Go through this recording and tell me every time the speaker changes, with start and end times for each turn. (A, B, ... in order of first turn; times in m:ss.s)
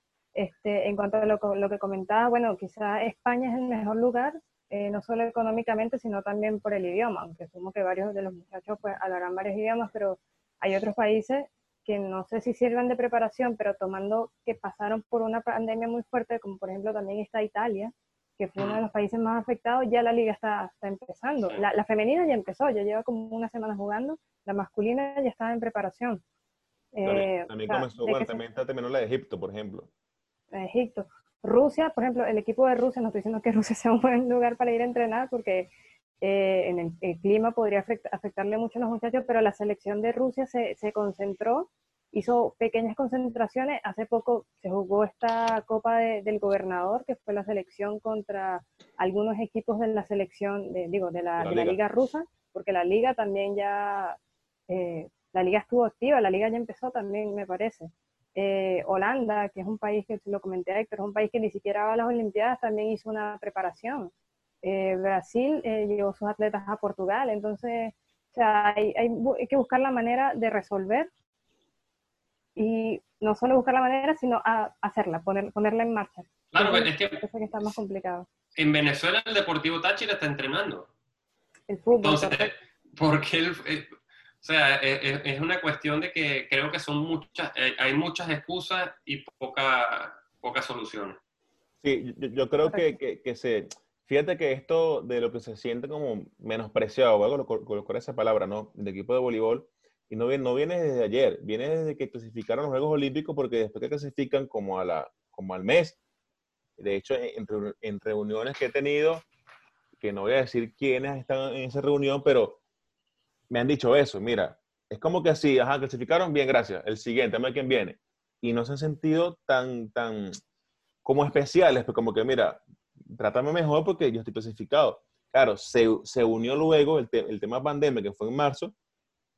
0:00.4-0:26.2 A
0:27.0-0:28.4 A
0:27.0-0:29.9 B
0:30.5-0:35.7 A
0:36.2-0:54.2 A
0:51.4-0:51.8 B
0:54.7-1:04.1 A
1:04.6-1:11.1 A
1:12.6-1:18.3 A
1:16.5-1:17.2 C
1:18.6-1:20.9 C
1:21.7-1:22.5 A
1:22.0-1:23.9 C
1:24.4-1:31.2 C
1:31.8-1:46.0 B
1:46.8-1:49.2 B
1:50.0-1:52.6 B
1:53.5-2:00.4 B
2:01.0-2:08.7 B